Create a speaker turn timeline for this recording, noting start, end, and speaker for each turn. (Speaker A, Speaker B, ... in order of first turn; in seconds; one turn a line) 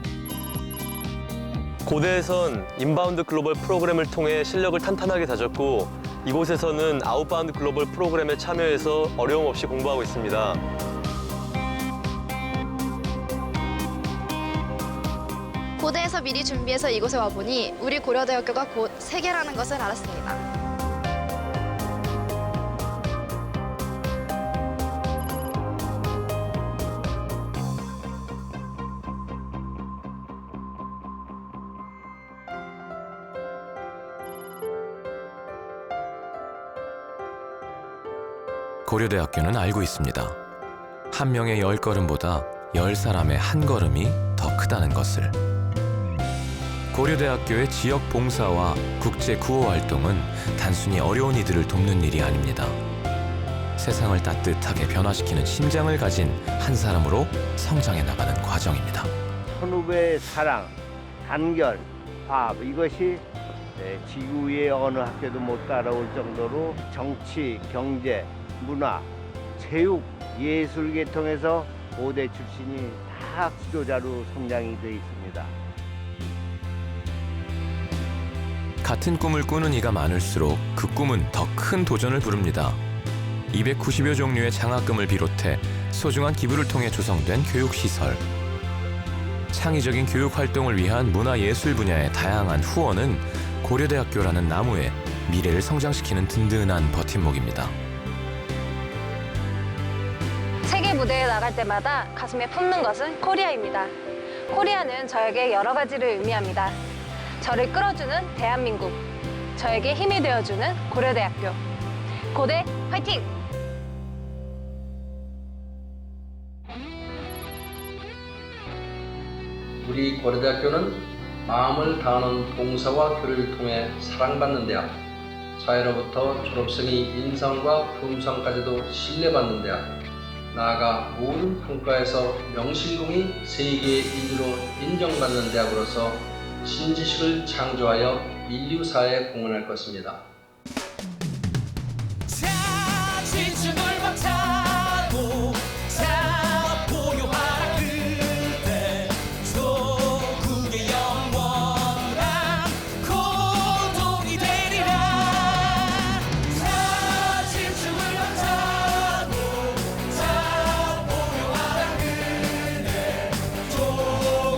Speaker A: 1.9-10.6
Speaker B: 15.8-20.4
Speaker C: 38.9-40.4
Speaker C: 41.1-45.4
Speaker C: 46.9-52.8
Speaker C: 53.8-59.1
Speaker D: 59.6-60.7
Speaker D: 61.2-63.2
Speaker D: 63.8-75.5
Speaker C: 78.8-82.8
Speaker C: 83.5-88.2
Speaker C: 89.5-97.8
Speaker E: 100.7-103.9
Speaker E: 104.5-106.8
Speaker E: 107.4-109.0
Speaker E: 109.6-111.6
Speaker E: 112.3-113.2
Speaker F: 119.8-125.0
Speaker F: 125.6-129.9
Speaker F: 130.5-140.2
Speaker C: 150.3-151.0
Speaker C: 153.9-154.7